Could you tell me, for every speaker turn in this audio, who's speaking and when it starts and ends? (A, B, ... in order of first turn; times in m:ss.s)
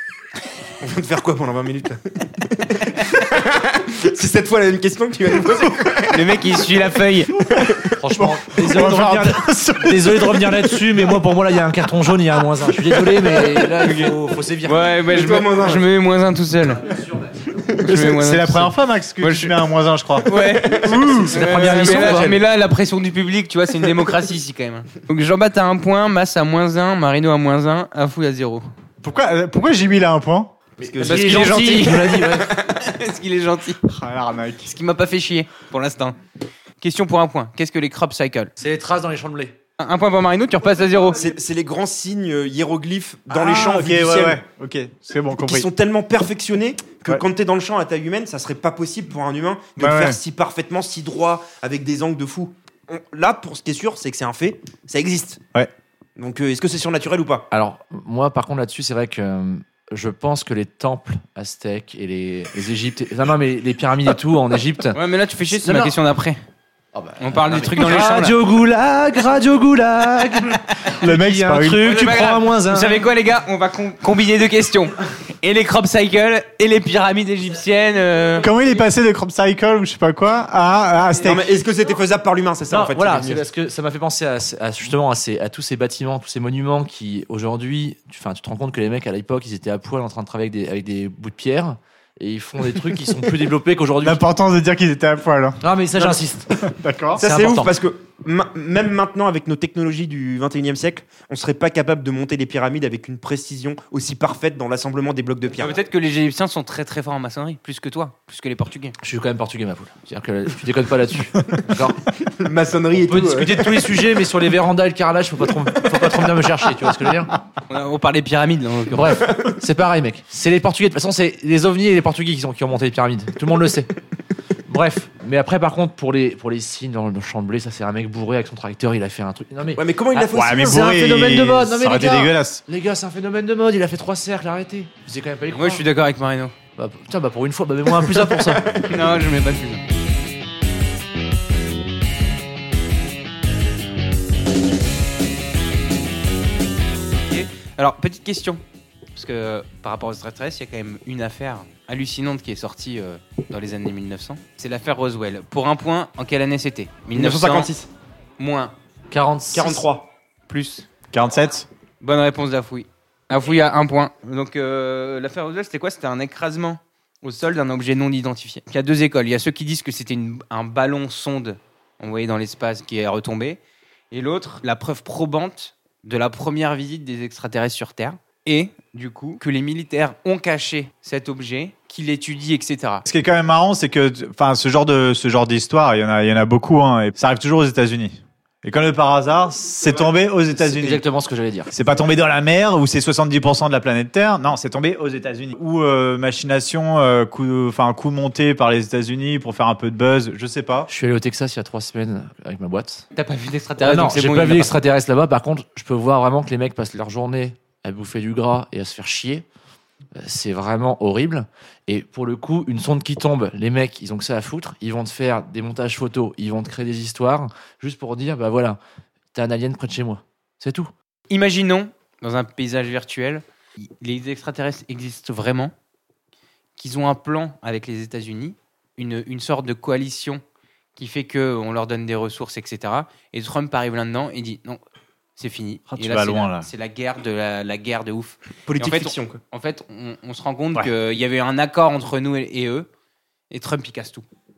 0:00.8-0:06.4 A
0:06.1-0:07.4 B
0:07.5-0:07.9 A
0:07.9-0:14.9 C
0:08.1-0:10.5 D
0:13.8-0:14.1 B
0:14.6-0:16.9 B
0:15.0-0:15.9 A
0:16.8-0:17.6 C
0:17.8-0:19.6 B
0:17.9-0:21.5 D
0:20.2-0:28.6 B
0:20.4-0:21.3 A
0:20.9-0:22.4 C
0:29.0-0:30.5 D
0:30.8-0:32.5 C
0:30.8-0:32.3 A
0:31.0-0:33.8 B
0:33.9-0:34.7 D
0:34.6-0:36.2 B
0:36.8-0:38.5 B
0:38.6-0:39.5 C
0:39.8-0:41.2 B
0:41.2-0:44.4 A
0:43.3-0:45.7 D
0:45.4-0:55.4 A
0:49.8-0:50.2 D
0:56.2-0:57.5 A
0:57.5-1:05.9 C
1:04.9-1:06.4 B
1:06.9-1:13.0 C
1:07.2-1:08.4 B
1:10.9-1:11.9 D
1:11.8-1:18.5 B
1:18.4-1:21.5 D
1:21.2-1:23.4 A
1:22.7-1:34.2 C
1:34.0-1:37.2 D
1:35.6-1:36.5 C
1:37.2-1:37.7 C
1:37.2-1:45.7 A
1:45.6-1:48.9 B
1:49.0-1:52.0 C
1:52.2-1:53.9 A
1:53.0-1:57.3 C
1:57.7-1:59.3 B
1:58.9-2:03.9 C
2:04.7-2:15.8 C
2:09.7-2:10.8 A
2:10.3-2:12.6 D
2:15.5-2:16.5 B
2:16.8-2:18.7 C
2:18.2-2:18.9 A
2:18.8-2:19.8 B
2:27.2-2:28.6 B
2:29.1-2:37.7 B
2:37.1-2:37.9 A
2:38.4-2:38.7 B
2:39.1-2:39.8 C
2:39.5-2:40.1 A
2:40.5-2:40.9 B
2:41.1-2:41.7 D
2:42.0-2:53.6 B
2:54.1-3:03.0 B
3:03.0-3:11.0 D
3:10.5-3:11.7 C
3:11.7-3:20.9 D
3:20.9-3:23.1 C
3:23.1-3:24.7 B
3:23.8-3:29.4 C
3:30.2-3:38.8 C
3:39.3-3:40.9 C
3:41.3-3:45.7 B
3:46.8-3:50.4 B
3:51.0-3:54.8 B
3:55.4-4:02.9 B
3:55.9-3:56.7 D
3:58.7-3:59.4 A
4:03.5-4:04.2 B